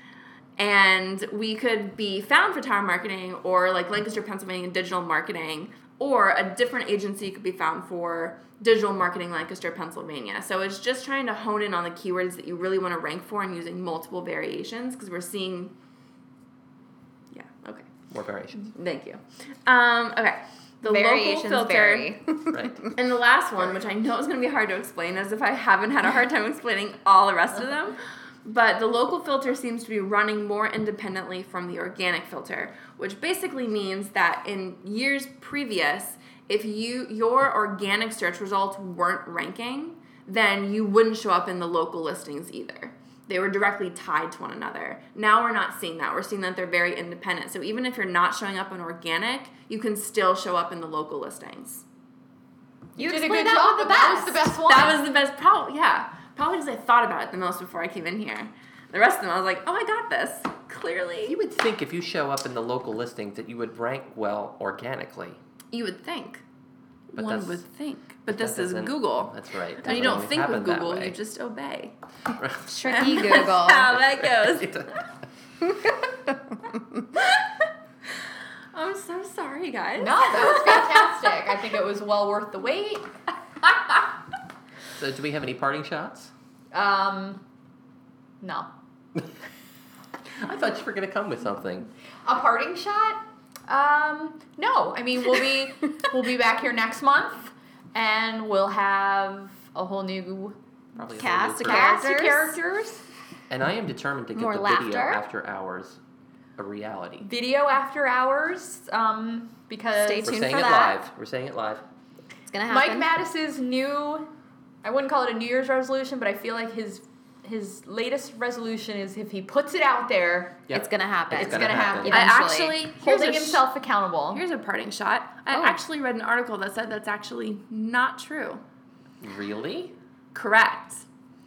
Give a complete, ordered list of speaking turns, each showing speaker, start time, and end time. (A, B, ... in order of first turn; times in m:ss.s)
0:00.6-0:15.7 A
0:17.3-0:17.9 A
0:18.1-0:18.7 B
0:18.6-0:22.1 A
0:20.8-0:22.9 C
0:22.5-0:22.9 B
0:22.9-0:51.8 A
0:53.0-0:54.5 C
0:53.0-0:55.0 D
0:54.6-1:01.4 A
1:01.3-1:05.4 B
1:05.7-1:06.4 A
1:07.1-1:11.9 A
1:07.1-1:07.6 B
1:08.3-1:11.2 B
1:12.4-1:12.7 B
1:12.6-1:14.0 C
1:12.8-1:15.0 A
1:13.9-1:14.9 B
1:17.2-1:17.6 A
1:18.7-1:21.1 A
1:20.0-1:23.1 D
1:24.9-1:26.3 B
1:26.7-1:27.4 D
1:28.4-1:28.7 D
1:30.4-1:31.9 B
1:32.2-1:40.6 D
1:41.0-1:42.0 B
1:41.1-1:42.6 C
1:41.6-1:43.0 D
1:43.5-1:46.0 B
1:44.3-1:45.2 C
1:46.6-1:47.3 B
1:47.2-1:50.9 D
1:49.9-1:51.0 C
1:50.2-1:51.8 B
1:52.5-1:53.1 C
1:52.7-1:54.3 D
1:54.8-2:00.6 D
2:00.7-2:02.2 B
2:00.7-2:02.8 C
2:01.3-2:04.4 D
2:02.1-2:03.6 A
2:04.3-2:08.6 A
2:05.5-2:05.8 C
2:09.2-2:09.9 B
2:10.3-2:11.0 A